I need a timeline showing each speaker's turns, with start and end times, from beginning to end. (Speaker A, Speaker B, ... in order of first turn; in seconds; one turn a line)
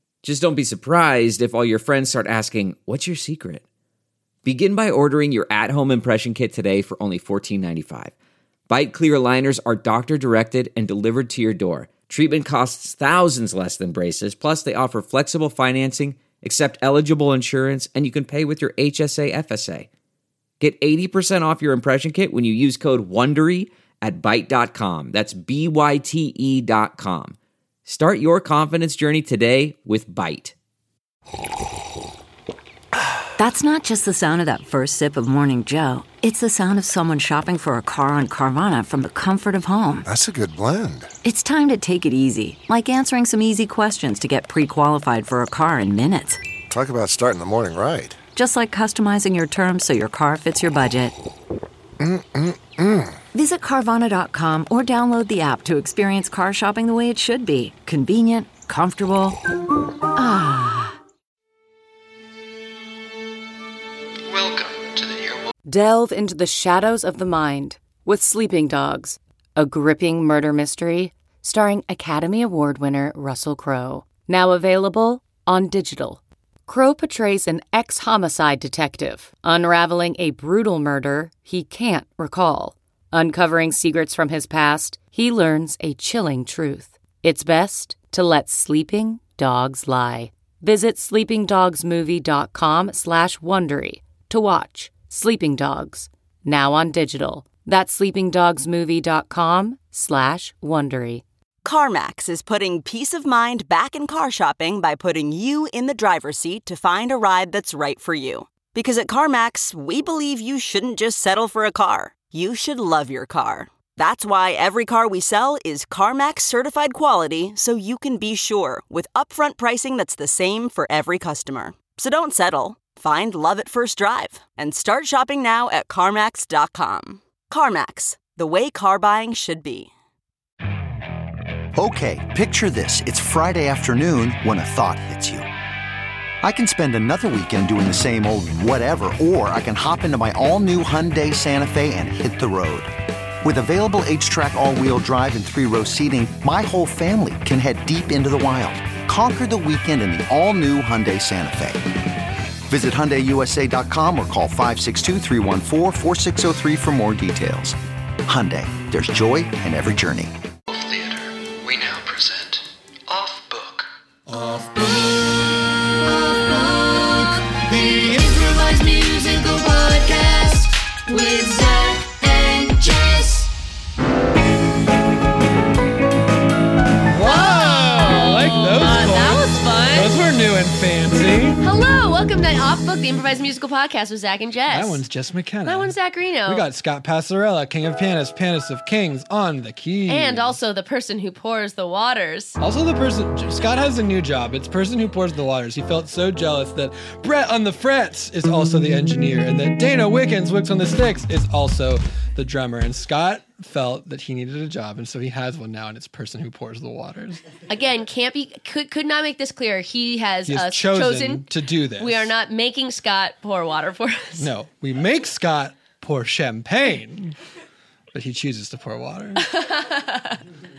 Speaker A: 0.2-3.6
Speaker A: 4.4-8.1
Speaker A: 8.7-19.9
Speaker A: 20.6-30.5
Speaker B: 33.4-40.1
Speaker C: 40.0-41.1
Speaker B: 41.2-46.4
Speaker C: 46.7-48.2
Speaker B: 48.3-51.1
Speaker C: 52.0-53.2
Speaker B: 53.3-59.4
Speaker B: 60.1-60.9
Speaker D: 64.3-65.5
Speaker E: 65.7-101.2
Speaker F: 101.6-129.9
Speaker G: 131.8-135.4
Speaker G: 136.4-142.9
Speaker G: 143.4-151.8
Speaker G: 152.7-160.3
Speaker D: 160.7-163.9
Speaker H: 164.3-165.2
Speaker H: 165.9-173.5
Speaker I: 177.1-181.6
Speaker H: 177.2-180.1
Speaker H: 181.6-185.0
Speaker I: 184.7-190.6
Speaker H: 185.7-186.7
Speaker H: 190.1-192.6
Speaker I: 192.6-207.4
Speaker H: 207.7-211.4
Speaker I: 210.4-212.3
Speaker H: 212.0-214.5
Speaker I: 214.4-217.3
Speaker I: 218.1-219.4
Speaker H: 219.4-220.4